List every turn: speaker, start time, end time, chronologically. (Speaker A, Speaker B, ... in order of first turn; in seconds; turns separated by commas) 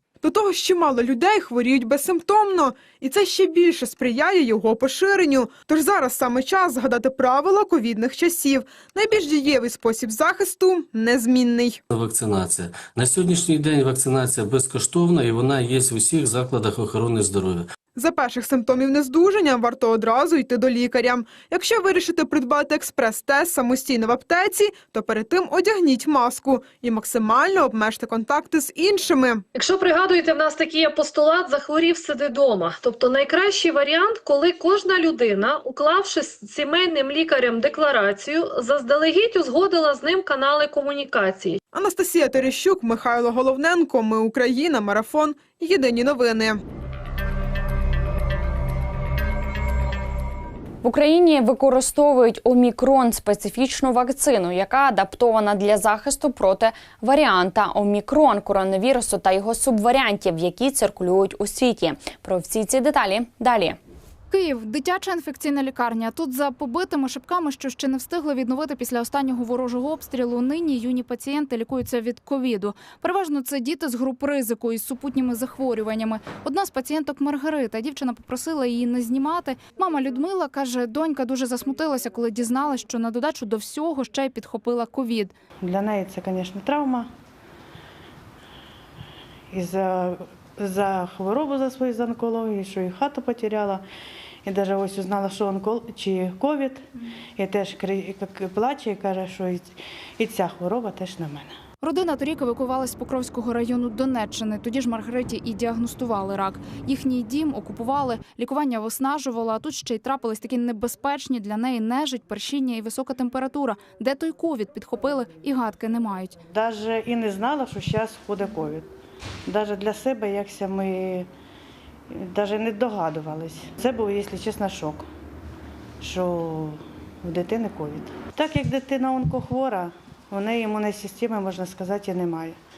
Speaker A: 0.2-11.8, Speaker B: 11.9-17.7, Speaker A: 18.0-29.4, Speaker C: 29.5-41.6, Speaker A: 41.7-46.6, Speaker D: 50.8-63.8, Speaker E: 64.3-85.3, Speaker F: 85.6-87.1, Speaker F: 89.5-93.8, Speaker F: 94.5-101.6, Speaker E: 101.8-116.4, Speaker F: 116.5-118.9, Speaker F: 119.5-121.3, Speaker F: 122.1-125.1, Speaker F: 126.0-132.6